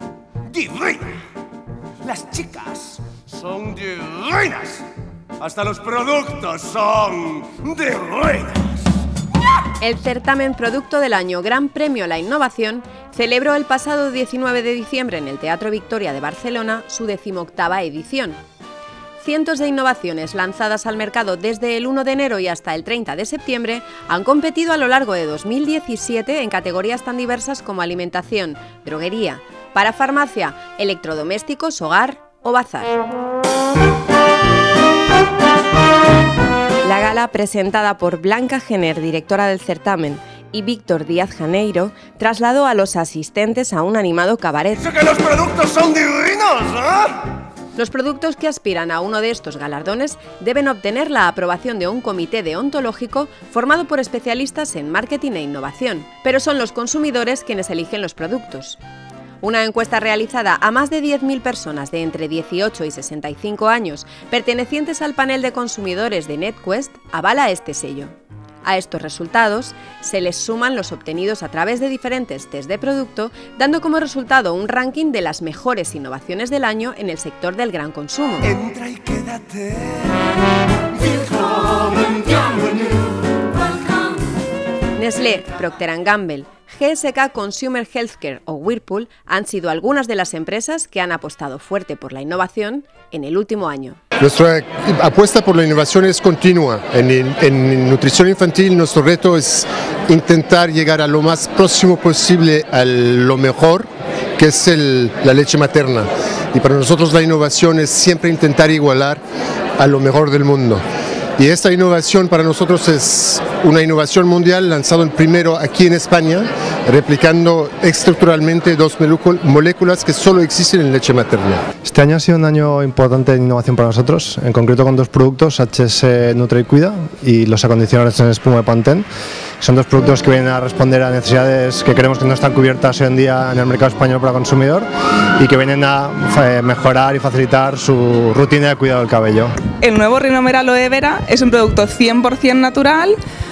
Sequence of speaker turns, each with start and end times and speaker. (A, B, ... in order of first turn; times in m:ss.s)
0:00.4-0:01.2 A
0:02.0-0:04.8 A
0:05.4-0:08.8 A
0:09.8-0:18.4 B
0:19.2-0:33.0 B
0:36.8-0:44.8 B
0:44.8-0:47.2 A
0:47.8-0:58.8 B
0:59.4-1:18.5 B
1:18.4-1:20.1 A
1:21.0-1:23.0 A
1:25.0-1:34.0 B
1:34.2-1:49.2 C
1:49.8-1:50.8 C
1:51.4-2:01.6 C
2:01.8-2:09.0 D
2:09.6-2:19.5 D
2:19.8-2:23.2 E